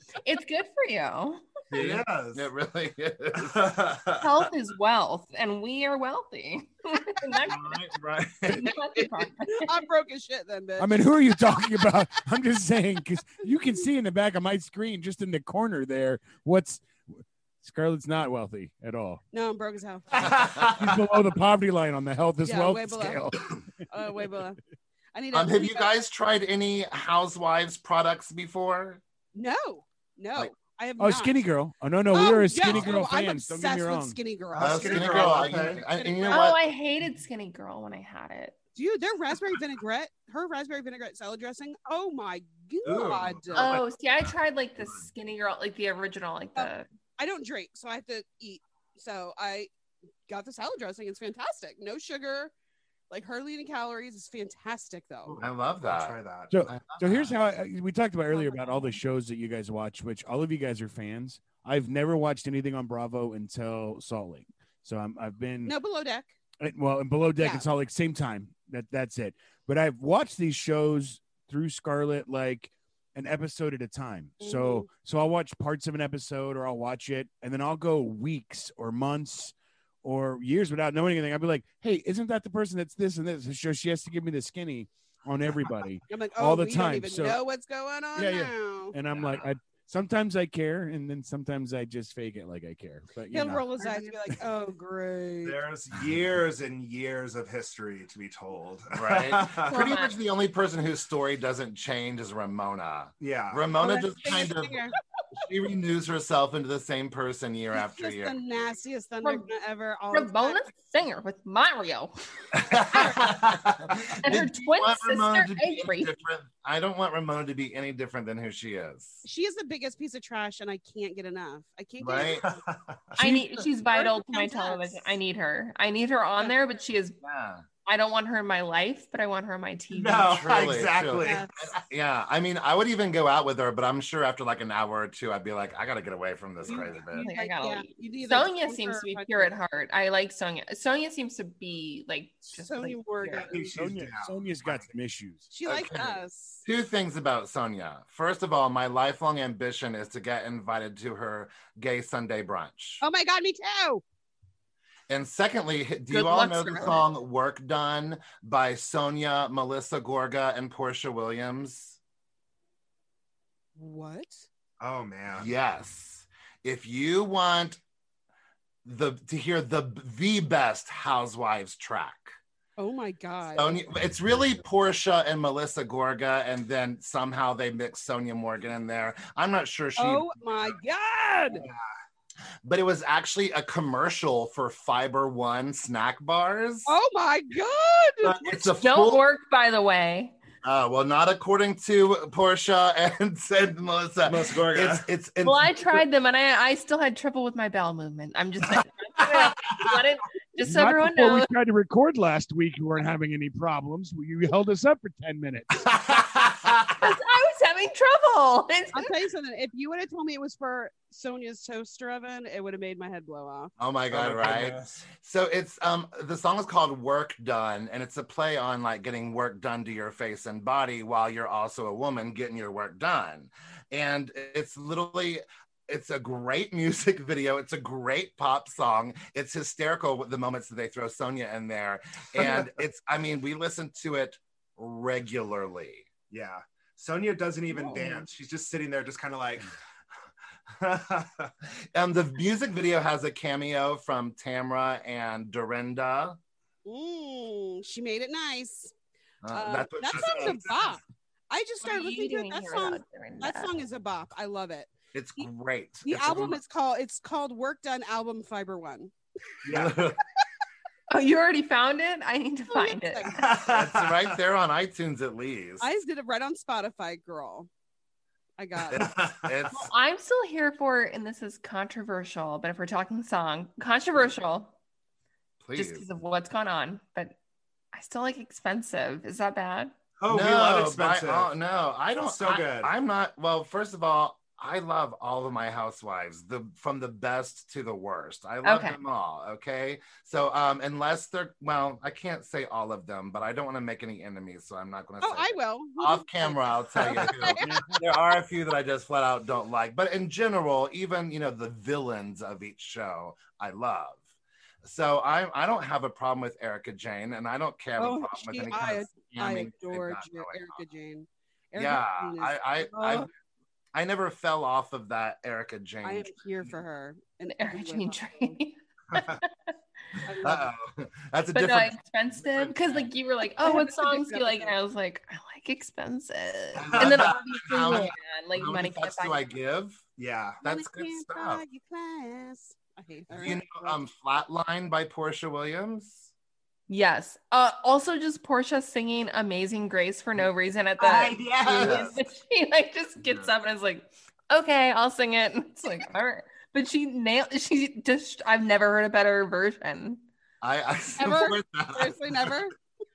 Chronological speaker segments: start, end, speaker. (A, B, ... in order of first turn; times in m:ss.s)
0:00.2-0:01.4 A
0:01.7-0:03.9 B
0:01.7-0:02.5 C
0:03.4-0:04.3 C
0:04.2-0:07.8 A
0:07.5-0:09.1 B
0:08.5-0:09.8 A
0:09.5-0:11.2 D
0:10.8-0:19.2 E
0:19.3-0:20.6 D
0:20.2-0:21.0 C
0:20.6-0:23.6 E
0:22.4-0:24.6 D
0:25.1-0:25.9 D
0:25.3-0:29.0 B
0:29.3-0:31.4 D
0:31.0-0:34.2 E
0:32.1-0:36.6 D
0:34.5-0:35.8 C
0:34.6-0:36.6 B
0:36.3-0:38.6 A
0:38.8-0:43.8 D
0:42.8-0:43.8 C
0:43.6-0:46.9 A
0:46.6-0:49.7 D
0:50.3-0:52.5 D
0:53.1-0:55.4 D
0:55.3-0:57.4 B
0:55.4-0:56.5 C
0:56.5-1:05.8 E
0:58.3-0:59.0 D
1:05.7-1:06.3 D
1:06.6-1:27.4 E
1:07.4-1:07.7 D
1:14.4-1:14.9 D
1:26.1-1:29.0 D
1:28.2-1:33.7 E
1:29.1-1:29.5 B
1:33.3-1:35.6 D
1:33.8-1:34.1 A
1:35.4-1:39.8 C
1:38.9-1:48.4 B
1:39.7-1:40.1 A
1:43.2-1:43.6 C
1:43.8-1:45.0 D
1:47.8-1:50.7 D
1:50.1-1:52.1 A
1:52.5-1:59.2 B
1:52.9-1:53.3 D
1:54.2-1:56.1 A
1:59.2-2:02.6 D
2:02.0-2:02.5 B
2:02.4-2:03.0 C
2:03.2-2:03.6 B
2:03.2-2:07.2 A
2:03.9-2:05.1 D
2:07.2-2:07.6 B
2:07.9-2:10.4 A
2:09.9-2:11.7 C
2:10.2-2:17.3 B
2:11.2-2:11.5 D
2:16.7-2:19.6 D
2:17.1-2:23.6 A
2:22.5-2:23.7 D
2:23.5-2:24.9 C
2:23.7-2:25.5 E
2:25.5-2:26.6 D
2:25.6-2:33.0 B
2:33.0-2:34.0 D
2:35.1-2:42.0 B
2:36.1-2:37.1 A
2:43.8-2:44.5 D
2:44.8-2:45.5 C
2:45.3-2:47.8 B
2:48.8-2:52.4 B
2:52.8-2:53.8 D
2:53.6-3:00.4 B
3:00.0-3:01.6 D
3:02.6-3:06.9 B
3:06.9-3:08.6 D
3:08.2-3:09.2 B
3:08.8-3:10.4 A
3:10.6-3:16.0 B
3:14.2-3:15.1 C
3:15.4-3:21.5 A
3:20.6-3:26.0 E
3:25.9-3:27.0 C
3:27.0-3:29.2 A
3:28.9-3:33.7 D
3:33.8-3:56.1 B
3:34.1-3:35.0 C
3:52.4-3:52.7 C
3:56.3-3:59.7 C
3:57.7-3:58.2 D
4:00.8-4:01.5 C
4:01.9-4:06.4 B
4:06.8-4:08.9 D
4:09.4-4:11.0 B
4:09.5-4:15.5 D
4:11.8-4:13.7 A
4:15.1-4:16.6 B
4:16.0-4:19.1 D
4:19.6-4:19.9 C
4:19.7-4:20.2 B
4:21.1-4:23.5 A
4:22.7-4:23.4 D
4:23.3-4:24.4 C
4:23.7-4:25.9 B
4:25.8-4:27.7 D
4:28.6-4:29.2 D
4:28.9-4:29.9 B
4:28.9-4:29.5 C
4:29.7-4:34.7 A
4:35.6-4:36.1 B
4:35.8-4:37.4 A
4:37.9-4:39.9 A
4:40.2-4:41.5 C
4:40.3-5:04.2 B
4:42.2-4:42.9 C
4:48.6-4:49.0 A
4:55.2-4:57.9 D
4:57.6-4:58.0 E
5:04.8-5:10.8 B
5:08.0-5:13.3 D
5:11.8-5:13.3 B
5:13.9-5:16.3 B
5:16.0-5:18.6 D
5:17.5-5:19.5 A
5:19.1-5:19.4 C
5:20.2-5:20.7 D
5:20.4-5:23.1 B
5:21.6-5:29.4 A
5:23.6-5:24.7 D
5:26.8-5:30.0 B
5:26.9-5:27.3 C
5:30.2-5:30.6 C
5:30.6-5:31.6 B
5:30.6-5:34.0 D
5:33.4-5:36.3 B
5:36.9-5:50.2 A
5:41.0-5:42.2 C
5:41.6-5:42.2 B
5:50.6-5:52.6 B
5:51.2-5:52.7 D